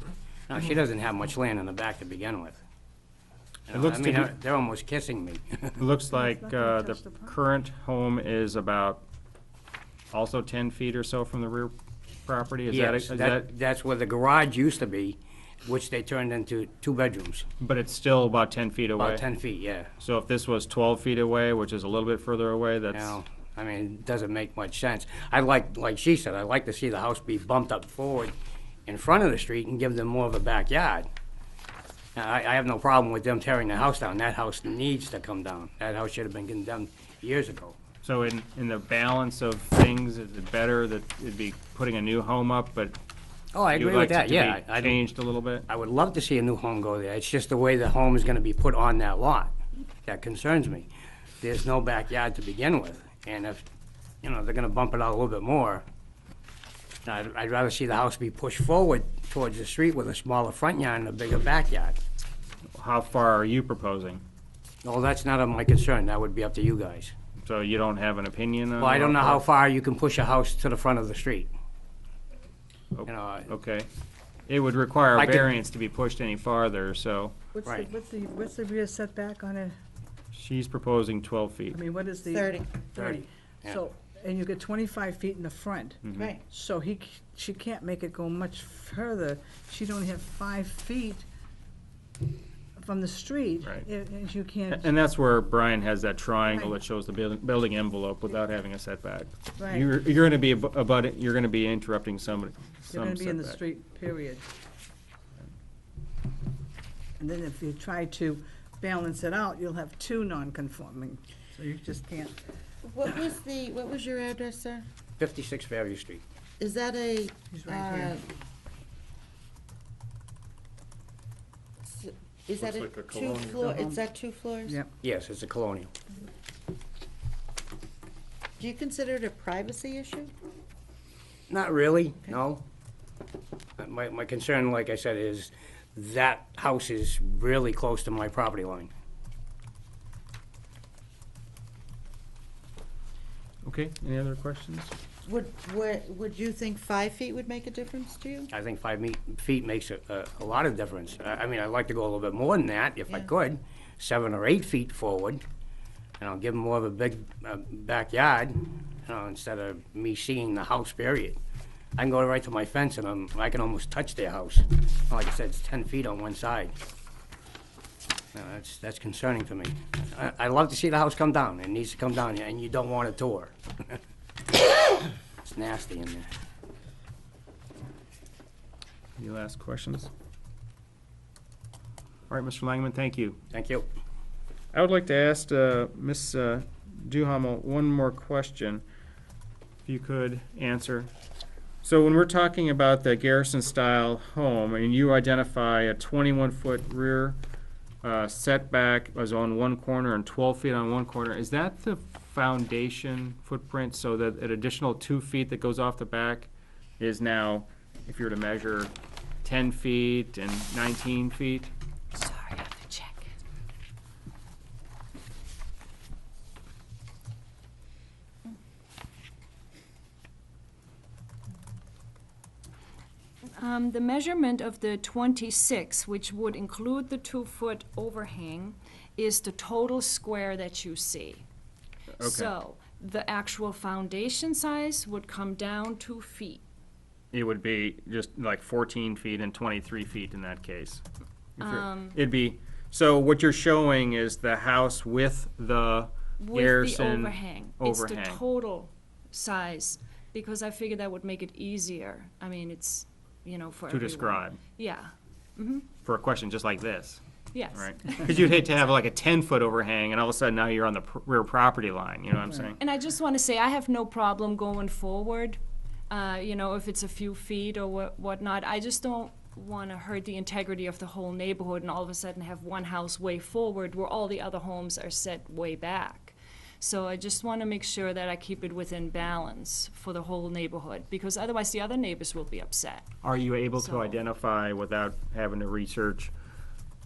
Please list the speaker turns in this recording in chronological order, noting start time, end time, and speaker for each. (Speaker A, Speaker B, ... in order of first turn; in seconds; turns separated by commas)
Speaker A: 0.5-2.6, Speaker A: 3.7-5.8, Speaker B: 3.7-4.3, Speaker B: 5.8-9.0, Speaker C: 6.1-7.3, Speaker B: 10.1-11.7, Speaker B: 12.2-13.4, Speaker A: 12.7-17.4, Speaker B: 17.6-19.2, Speaker A: 19.0-19.9, Speaker B: 20.0-23.2, Speaker A: 22.9-28.3, Speaker A: 28.9-31.1, Speaker A: 32.1-37.8, Speaker B: 38.0-43.0, Speaker A: 43.5-45.1, Speaker B: 43.7-45.6, Speaker A: 45.7-50.9, Speaker A: 51.4-53.6, Speaker A: 54.2-55.8, Speaker A: 57.0-62.0, Speaker B: 62.7-64.2, Speaker A: 64.8-67.1, Speaker B: 67.4-69.4, Speaker A: 68.8-71.5, Speaker B: 72.9-73.9, Speaker A: 73.0-73.5, Speaker B: 74.5-77.3, Speaker A: 75.1-75.5, Speaker C: 77.5-79.8, Speaker B: 80.3-81.8, Speaker C: 81.7-91.2, Speaker D: 82.3-82.7, Speaker A: 82.9-83.8, Speaker B: 86.0-86.3, Speaker D: 86.1-86.4, Speaker C: 92.8-94.9, Speaker B: 94.7-103.6, Speaker C: 96.5-96.8, Speaker C: 102.9-104.5, Speaker C: 107.2-112.3, Speaker D: 112.8-114.8, Speaker A: 115.2-116.2, Speaker D: 116.6-118.2, Speaker C: 117.5-118.2, Speaker D: 121.8-124.8, Speaker B: 122.6-123.6, Speaker C: 123.6-124.0, Speaker A: 125.0-125.9, Speaker D: 128.6-130.3, Speaker A: 131.5-132.6, Speaker A: 133.8-138.9, Speaker B: 143.6-144.9, Speaker D: 145.2-148.5, Speaker A: 148.5-155.4, Speaker A: 156.2-161.4, Speaker A: 161.9-166.7, Speaker A: 168.3-174.0, Speaker A: 175.4-176.3, Speaker B: 179.2-180.1, Speaker B: 182.3-183.4, Speaker A: 183.5-183.8, Speaker B: 184.7-188.8, Speaker B: 189.8-191.1, Speaker B: 191.8-197.4, Speaker B: 198.0-208.9, Speaker B: 209.4-211.7, Speaker E: 212.1-213.3, Speaker E: 223.6-231.4, Speaker B: 232.2-232.5, Speaker E: 232.2-236.6, Speaker B: 237.3-241.0, Speaker B: 241.6-248.4, Speaker E: 241.6-242.2, Speaker E: 246.4-255.9, Speaker B: 253.9-254.6, Speaker B: 256.0-257.2, Speaker E: 257.5-258.3, Speaker B: 257.7-262.8, Speaker E: 262.8-265.6, Speaker E: 266.1-283.1, Speaker B: 283.2-286.3, Speaker E: 283.8-284.2